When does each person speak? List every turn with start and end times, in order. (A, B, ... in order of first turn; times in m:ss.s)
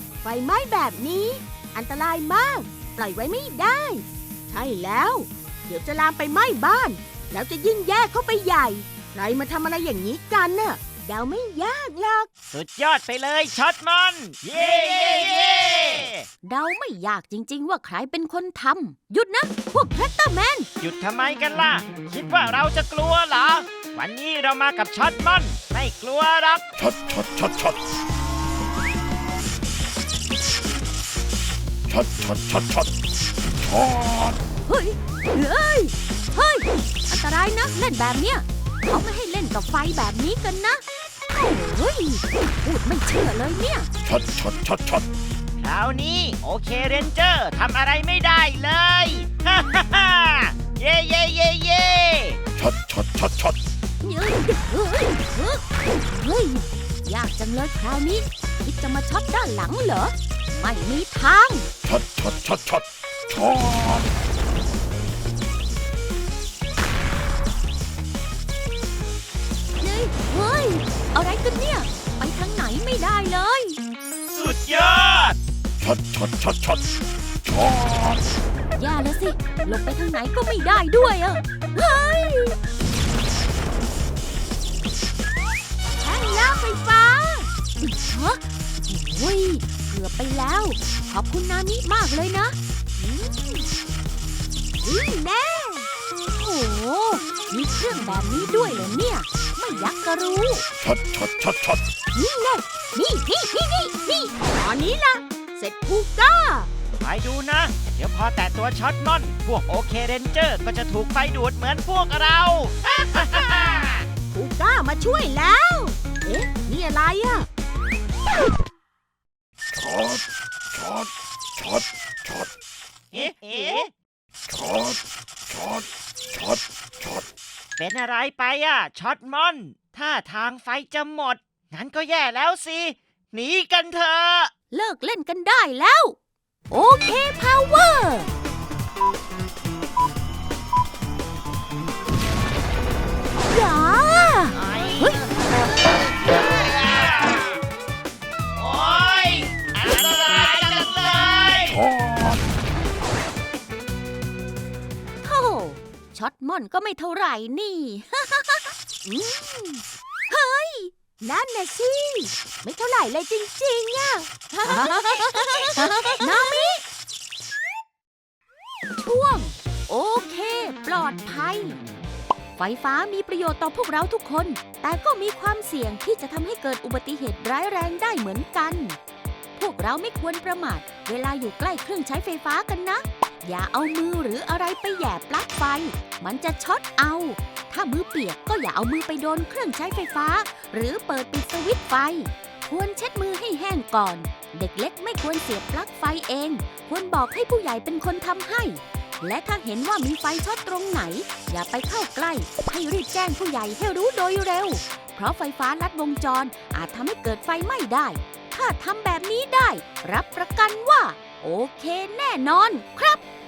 0:00.2-0:12.3 A
0:12.5-0:16.3 B
0:16.4-0:20.7 C
0:20.8-0:26.7 B
0:26.8-0:27.8 D
0:31.9-0:32.9 D
0:33.6-0:34.4 D
0:34.6-0:43.9 C
0:44.0-0:45.1 D
0:45.6-0:52.4 B
0:52.6-0:53.6 D
0:54.0-1:01.7 C
1:01.8-1:04.1 D
1:09.8-1:13.8 C
1:14.3-1:15.4 B
1:15.8-1:16.8 D
1:17.4-1:18.2 D
1:18.7-1:22.6 C
1:26.0-1:27.5 A
1:27.8-1:32.6 C
1:33.0-1:33.7 A
1:34.8-1:35.9 A
1:36.3-1:40.6 C
1:40.8-1:41.8 D
1:42.1-1:46.7 A
1:47.0-1:54.0 B
1:54.3-1:57.5 A
1:59.7-2:02.5 D
2:03.1-2:03.9 B
2:04.5-2:07.2 D
2:07.8-2:14.5 B
2:14.7-2:16.2 C
2:16.7-2:18.3 C
2:23.5-2:25.2 C
2:24.5-2:25.2 B
2:26.2-2:27.5 B
2:28.6-2:31.8 B
2:35.2-2:38.7 C
2:39.0-2:39.8 A
2:40.3-2:40.9 C
2:41.2-2:46.7 A
2:44.5-2:46.8 C
2:49.0-2:51.8 C
2:52.6-2:59.0 C
2:59.6-3:33.2 C